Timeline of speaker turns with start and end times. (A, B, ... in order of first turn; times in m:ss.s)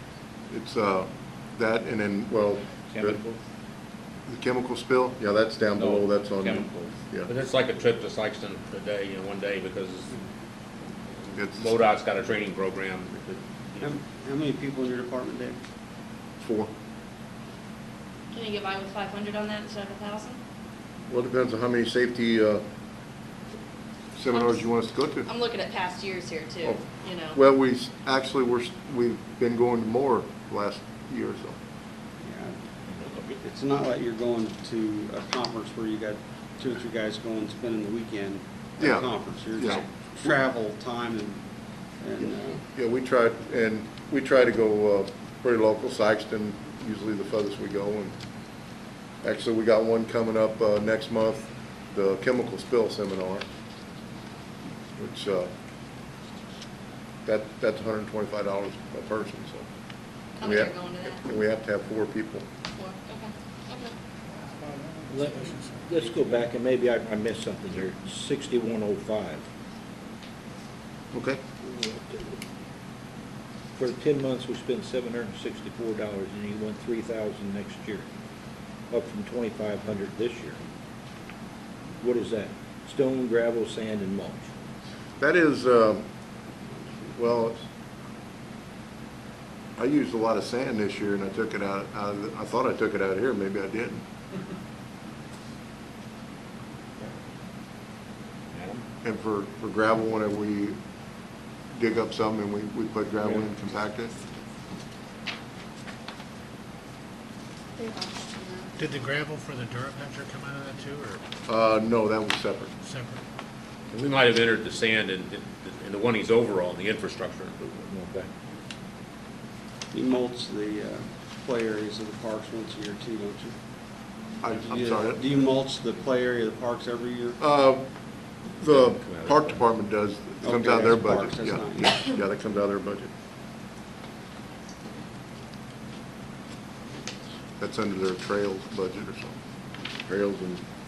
0:00.5-0:03.2 A
0:02.9-0:03.4 B
0:04.3-0:07.3 A
0:07.2-0:10.2 C
0:11.4-0:13.9 C
0:11.4-0:11.7 A
0:13.8-0:15.6 D
0:16.4-0:16.7 A
0:18.3-0:20.4 E
0:21.1-0:22.6 A
0:24.2-0:25.3 A
0:24.3-0:24.6 E
0:25.2-0:27.4 E
0:26.6-0:31.6 A
0:32.2-0:32.6 D
0:33.4-0:41.4 D
0:38.8-0:39.8 A
0:42.0-0:42.6 D
0:42.7-0:48.1 A
0:49.2-0:53.4 A
0:55.0-0:55.5 A
0:57.2-0:59.6 A
1:00.4-1:01.2 E
1:00.4-1:02.4 A
1:02.8-1:03.9 E
1:04.7-1:06.4 F
1:05.1-1:09.4 B
1:11.1-1:11.4 A
1:11.6-1:12.4 B
1:13.8-1:18.1 B
1:18.9-1:20.6 B
1:22.0-1:24.5 B
1:25.2-1:26.0 A
1:27.1-1:27.6 A
1:29.8-1:34.0 A
1:38.5-1:38.8 C
1:39.0-1:40.8 A
1:41.7-1:44.1 A
1:47.8-1:48.7 E
1:48.8-1:51.2 F
1:51.5-1:52.7 A
1:52.8-1:53.2 F
1:53.9-1:57.8 C
1:57.8-1:58.3 B
1:59.9-2:03.5 D
2:04.4-2:05.4 A
2:04.5-2:07.4 D
2:07.4-2:07.8 A
2:08.5-2:13.1 A
2:08.7-2:09.6 C
2:10.4-2:12.1 D
2:17.6-2:19.3 A
2:20.0-2:20.6 A